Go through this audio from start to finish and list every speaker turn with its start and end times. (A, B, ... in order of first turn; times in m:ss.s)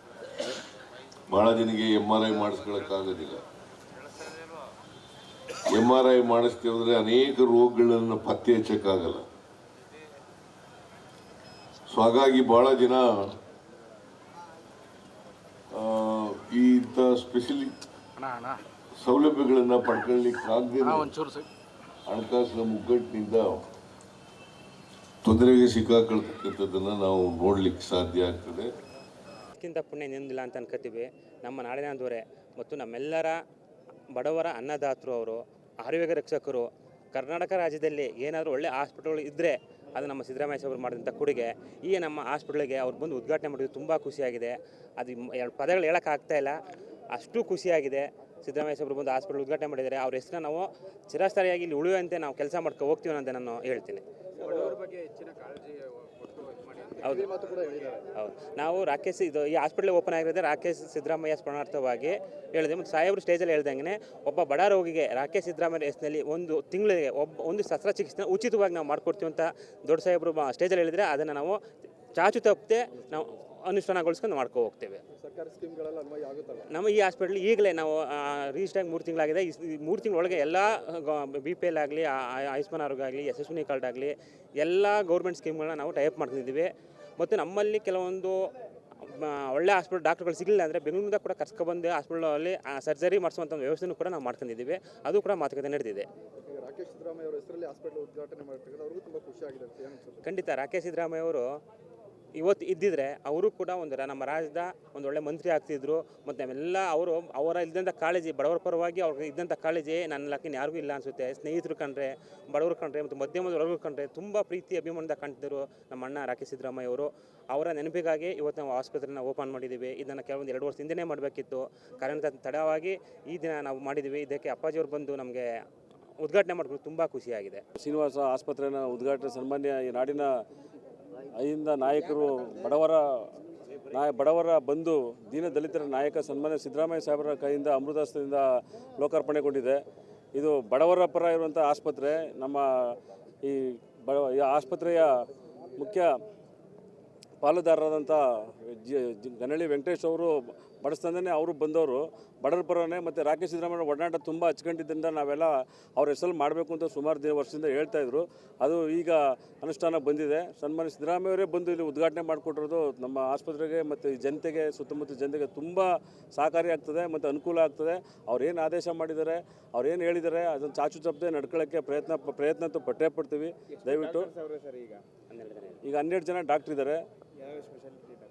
0:01.3-0:03.4 A
0:05.6-0:09.2 A
0:11.9-0:13.3 A
0:15.7-0:17.7 A
0:19.0-0:21.2 A
0:22.0-0:23.6 A
0:25.2-0:28.7 A
0:29.6-0:33.4 B
0:34.1-0:46.6 B
0:47.2-0:54.0 B
0:54.4-0:54.8 C
0:57.0-0:57.3 B
0:57.0-0:58.0 C
0:58.2-1:11.6 B
1:12.2-1:15.0 B
1:15.2-1:16.7 C
1:16.7-1:28.4 B
1:29.0-1:36.1 B
1:36.4-1:40.3 C
1:40.2-1:41.6 B
1:42.4-2:05.4 B
2:06.2-2:07.6 B
2:07.8-2:10.4 D
2:11.3-2:13.3 D
2:13.9-2:19.8 D
2:20.3-2:25.1 D
2:25.8-2:26.1 D
2:27.4-2:54.3 D
2:54.0-2:55.8 B
2:55.8-2:57.0 D
2:57.4-2:58.0 B